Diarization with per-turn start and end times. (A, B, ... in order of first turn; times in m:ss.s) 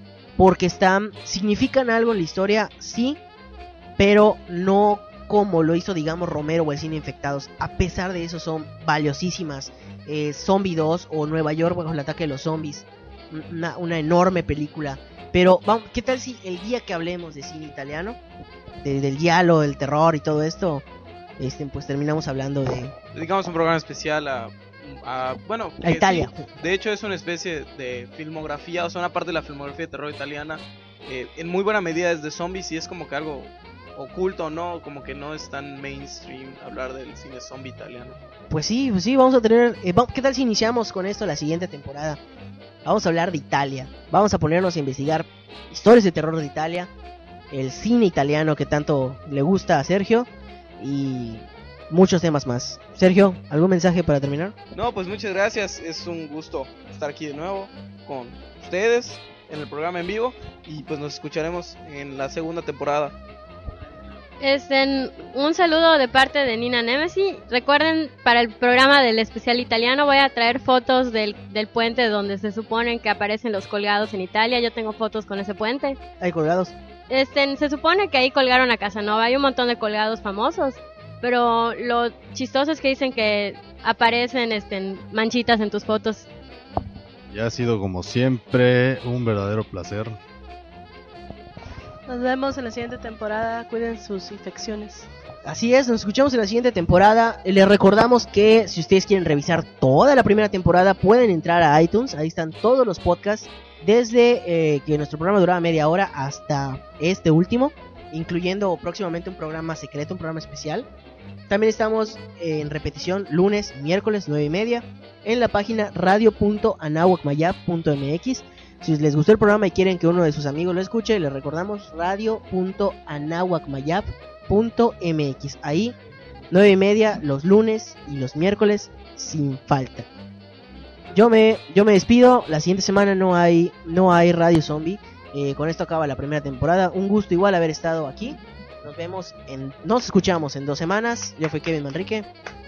0:00.4-0:03.2 A
0:04.0-0:18.2 A
0:18.8-0:20.9 A
0:21.4-0:22.9 A
0:23.1-0:38.2 B
0:25.8-0:26.3 A
0:38.5-0:42.2 A
0:42.8-0:46.9 A
0:47.5-0:54.6 A
0:54.7-1:03.2 B
1:04.4-1:16.0 C
1:16.2-1:16.8 A
1:17.1-1:26.3 C
1:27.3-1:30.2 D
1:32.1-1:35.1 E
1:35.4-1:50.9 A
1:51.5-2:06.0 A
2:06.5-2:10.1 A
2:11.1-2:22.3 A